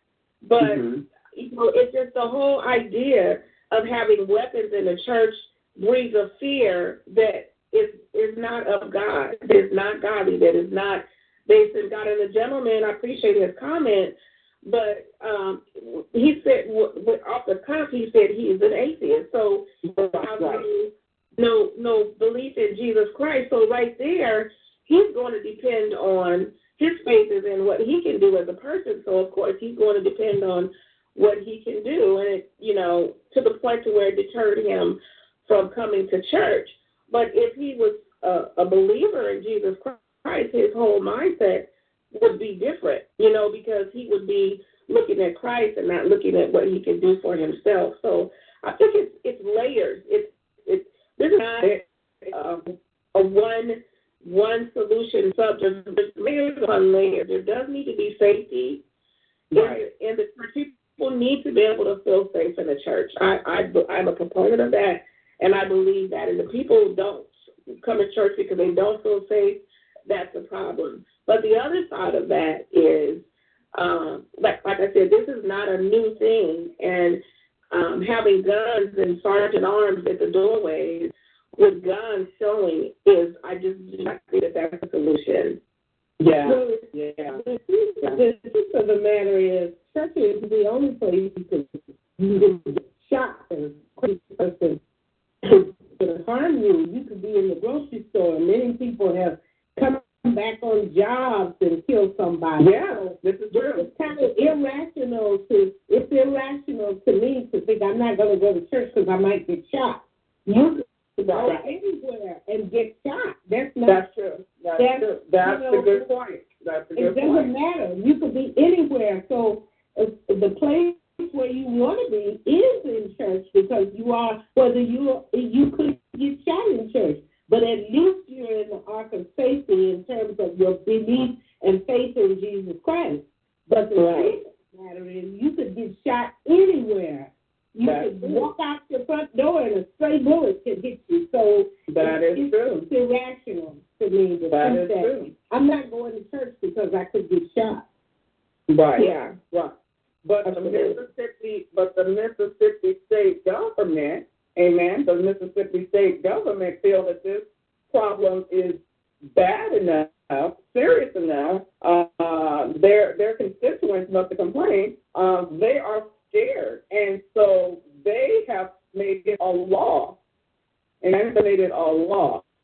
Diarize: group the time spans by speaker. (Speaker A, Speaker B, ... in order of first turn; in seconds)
Speaker A: 0.4-19.6, 20.2-58.8, 59.5-67.3, 67.8-77.2, 77.7-85.6, 111.2-111.6, 149.0-149.3, 150.4-151.0
Speaker B: 0.6-1.0, 19.9-20.6, 51.6-52.3, 59.5-59.9, 86.2-87.4, 102.6-103.9, 113.9-117.5, 134.0-134.3, 137.8-138.5, 141.9-142.9, 144.5-145.3, 148.7-149.7, 150.2-158.8, 159.3-170.2, 171.0-172.4
Speaker C: 86.4-94.8, 95.5-114.0, 114.8-116.0, 117.0-147.8